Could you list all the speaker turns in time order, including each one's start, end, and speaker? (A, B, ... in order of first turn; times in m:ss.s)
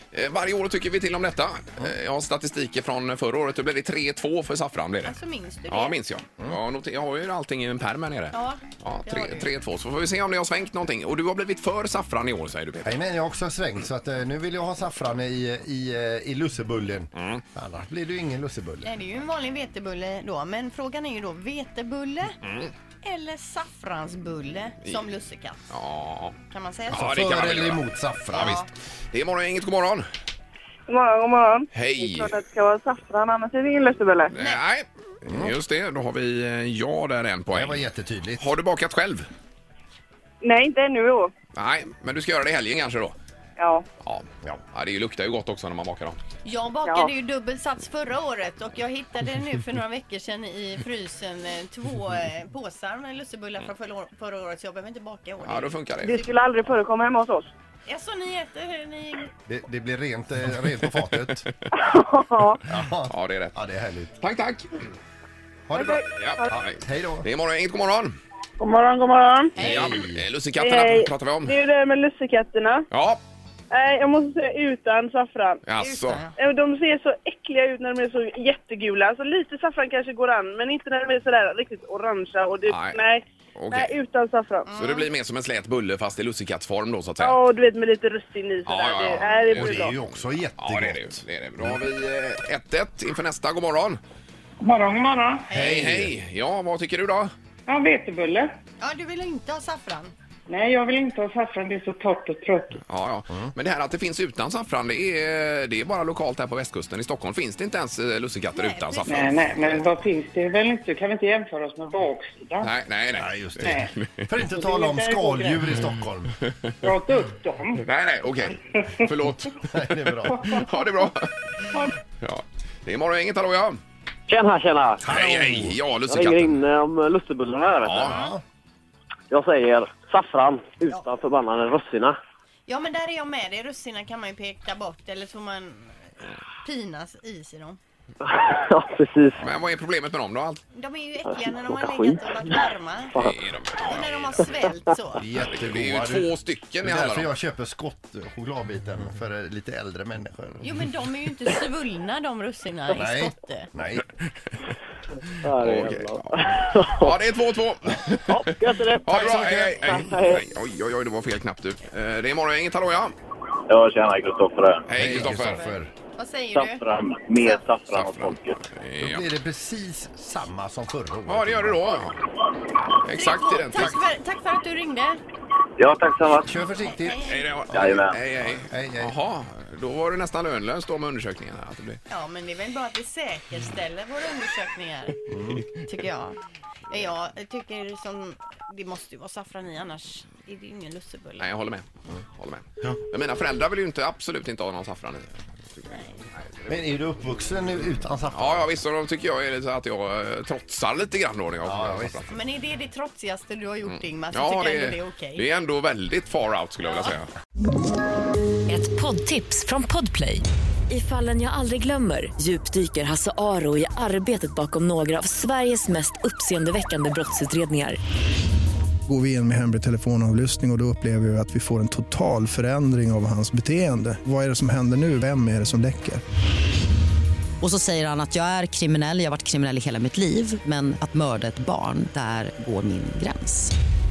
0:00.1-0:05.1 A
0:05.0-0:06.0 B
0:05.7-0:13.0 A
0:08.3-0:09.5 B
0:12.8-0:18.9 C
0:17.1-0:17.4 A
0:18.8-0:22.3 B
0:22.4-0:22.7 A
0:23.0-0:25.7 B
0:25.7-0:26.4 A
0:26.5-0:27.1 B
0:26.9-0:27.8 A
0:26.9-0:28.6 C
0:28.3-0:28.7 B
0:28.3-0:30.0 A
0:30.9-0:34.3 D
0:31.7-0:32.4 A
0:34.3-0:37.8 A
0:34.4-0:34.6 B
0:35.3-0:35.5 C
0:37.5-0:38.5 C
0:38.4-0:39.3 A
0:40.4-0:41.3 D
0:41.5-0:43.2 A
0:43.6-0:43.8 D
0:44.0-0:46.2 A
0:46.4-0:56.1 B
0:55.4-0:56.2 A
0:56.1-0:57.5 D
0:57.9-0:59.3 B
0:59.5-1:01.5 C
1:01.7-1:02.6 D
1:02.6-1:04.2 C
1:03.1-1:03.6 A
1:04.2-1:04.7 A
1:05.7-1:07.3 C
1:05.8-1:06.4 D
1:06.1-1:08.1 A
1:08.6-1:09.5 D
1:09.6-1:10.1 B
1:09.6-1:10.2 C
1:09.6-1:11.6 A
1:10.6-1:12.9 D
1:12.9-1:13.2 A
1:13.7-1:15.6 D
1:15.6-1:16.2 A
1:15.8-1:16.3 B
1:16.4-1:24.7 D
1:22.7-1:23.0 A
1:23.6-1:24.0 A
1:24.7-1:25.1 B
1:24.8-1:27.4 A
1:27.2-1:29.9 D
1:28.6-1:30.0 A
1:29.5-1:31.8 C
1:30.6-1:34.0 A
1:34.6-1:35.4 E
1:35.5-1:35.9 B
1:35.5-1:36.1 C
1:35.6-1:37.3 A
1:37.7-1:38.5 E
1:38.8-1:40.1 B
1:40.5-1:42.8 E
1:42.8-1:49.9 A
1:48.5-1:49.4 B
1:49.1-1:52.7 E
1:52.6-1:54.1 A
1:53.2-1:56.3 C
1:53.6-1:53.9 E
1:54.4-1:55.7 E
1:56.8-1:57.8 E
1:57.8-2:01.3 A
1:58.7-1:59.1 E
1:59.6-2:00.6 C
2:02.2-2:03.8 A
2:04.3-2:05.0 F
2:05.0-2:05.8 C
2:05.0-2:06.6 A
2:06.0-2:08.2 F
2:07.8-2:08.2 A
2:08.0-2:08.4 C
2:08.1-2:08.3 B
2:09.3-2:12.2 F
2:12.6-2:17.8 B
2:18.2-2:19.4 F
2:19.4-2:20.6 A
2:20.7-2:23.2 B
2:21.2-2:23.4 F
2:23.2-2:24.5 A
2:23.8-2:25.2 B
2:24.4-2:24.7 F
2:25.1-2:30.8 C
2:25.3-2:27.3 A
2:30.6-2:33.7 B
2:33.0-2:34.1 C
2:35.4-2:37.2 F
2:35.6-2:38.4 A
2:38.3-2:40.4 F
2:39.0-2:43.1 A
2:39.3-2:39.8 C
2:43.7-2:44.8 G
2:44.9-2:45.6 A
2:45.0-2:45.9 C
2:45.0-2:47.6 B
2:46.6-2:48.6 G
2:48.0-2:49.3 A
2:49.0-2:52.0 C
2:51.3-2:52.2 A
2:53.0-2:54.0 A
2:53.1-2:55.2 B
2:55.8-2:56.5 G
2:56.4-2:57.4 C
2:56.8-2:57.4 B
2:57.2-3:02.0 A
2:57.7-2:58.2 G
2:58.4-2:59.1 C
3:02.1-3:05.2 B
3:05.3-3:05.7 C
3:05.7-3:06.4 B
3:06.9-3:11.5 B
3:11.4-3:16.7 A
3:16.7-3:18.7 C
3:18.3-3:22.3 A
3:21.6-3:22.3 C
3:22.3-3:25.5 B
3:23.9-3:27.3 A
3:26.8-3:27.2 B
3:28.7-3:38.0 H
3:39.1-3:46.2 I
3:47.6-3:53.7 J